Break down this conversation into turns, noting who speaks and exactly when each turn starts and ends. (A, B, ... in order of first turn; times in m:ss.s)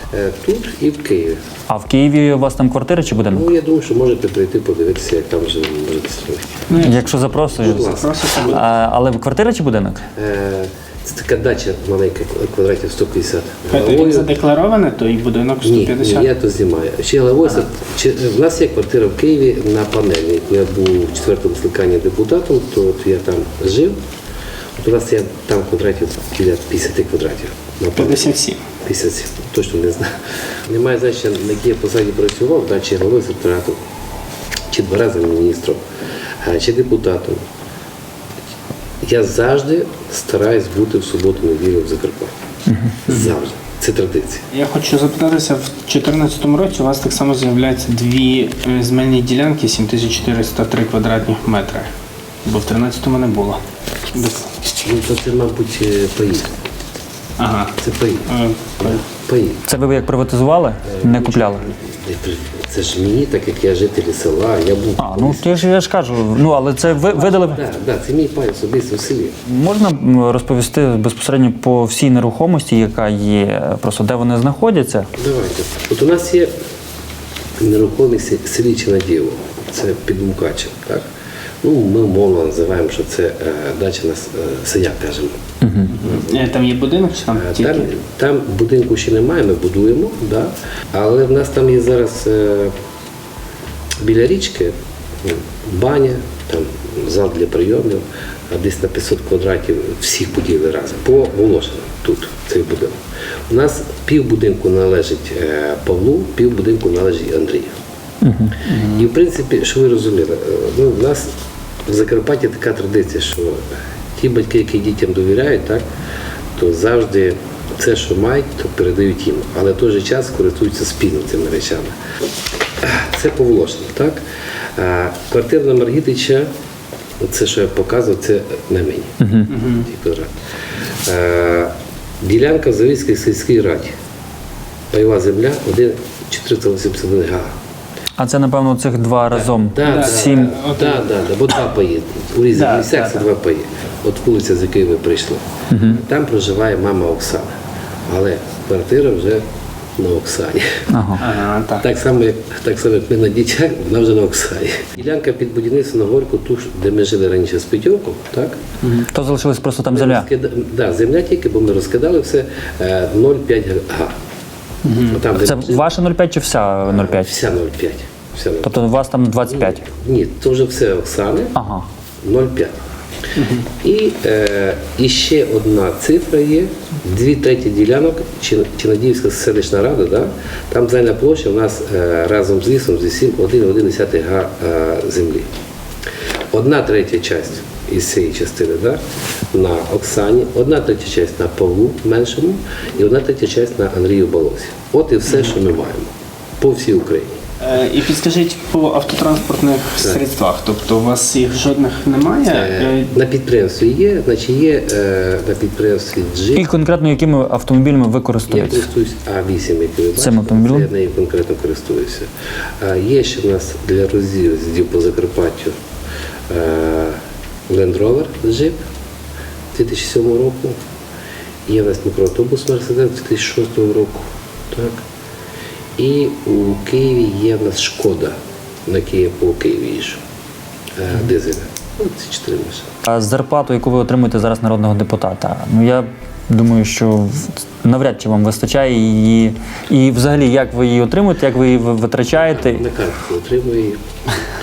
0:00.1-0:01.4 A
0:01.7-0:03.4 B
0:03.2-0:06.6 A
0:06.7-0:08.6 C
0:06.8-0:07.9 B
0:07.5-0:08.6 A
0:08.4-0:10.0 B
0:10.1-0:14.3 A
0:13.7-0:16.3 C
0:15.6-0:24.0 A
0:24.8-0:28.3 A
0:28.0-0:28.6 C
0:28.8-0:30.1 A
0:30.6-0:33.8 A
0:34.7-0:35.8 A
0:36.4-0:37.4 A
0:39.0-0:42.3 A
0:42.7-0:43.0 B
0:43.0-0:44.4 A
0:43.1-0:43.3 C
0:44.5-0:51.9 C
0:52.4-0:54.8 C
0:54.8-0:56.5 A
0:57.4-0:59.0 C
0:57.8-0:58.3 A
0:58.8-0:59.6 A
0:59.6-1:01.6 B
1:00.8-1:05.5 A
1:05.0-1:07.6 B
1:07.0-1:09.3 A
1:09.4-1:15.1 B
1:15.2-1:16.5 A
1:17.6-1:21.0 A
1:21.6-1:25.4 A
1:25.6-1:25.9 B
1:25.9-1:27.9 C
1:26.1-1:26.4 A
1:27.3-1:32.7 A
1:34.0-1:43.0 A
1:43.5-1:47.8 A
1:48.2-1:48.6 B
1:48.7-1:49.0 C
1:48.7-1:51.3 A
1:51.9-1:53.6 A
1:54.2-1:55.8 A
1:56.6-2:01.9 A
2:02.8-2:04.2 A
2:04.8-2:06.5 A
2:07.2-2:10.3 A
2:09.2-2:09.5 B
2:09.5-2:09.9 C
2:11.0-2:13.9 A
2:14.9-2:17.5 A
2:18.2-2:20.5 B
2:19.2-2:27.5 A
2:19.8-2:21.1 C
2:22.5-2:23.2 C
2:25.7-2:26.0 B
2:28.1-2:29.4 A
2:30.0-2:30.8 A
2:30.9-2:31.2 B
2:31.2-2:31.9 C
2:31.8-2:38.6 A
2:39.0-2:40.3 B
2:39.9-2:44.1 A
2:44.8-2:45.2 C
2:45.0-2:45.9 A
2:45.4-2:47.4 B
2:46.8-2:51.5 A
2:48.6-2:49.8 B
2:51.6-2:51.9 B
2:52.2-2:52.8 A
2:53.4-2:53.7 C
2:53.8-3:05.5 A
3:06.5-3:09.0 A
3:09.5-3:17.4 A
3:17.6-3:23.1 C
3:20.0-3:20.2 A
3:22.4-3:26.7 A
3:26.5-3:28.9 B
3:28.5-3:32.3 A
3:30.2-3:30.9 B
3:32.8-3:35.8 A
3:36.5-3:38.8 A
3:39.7-3:40.8 A
3:41.7-3:45.0 A
3:46.0-3:50.2 A
3:51.0-3:52.9 A
3:53.1-4:02.8 B
4:02.4-4:04.0 A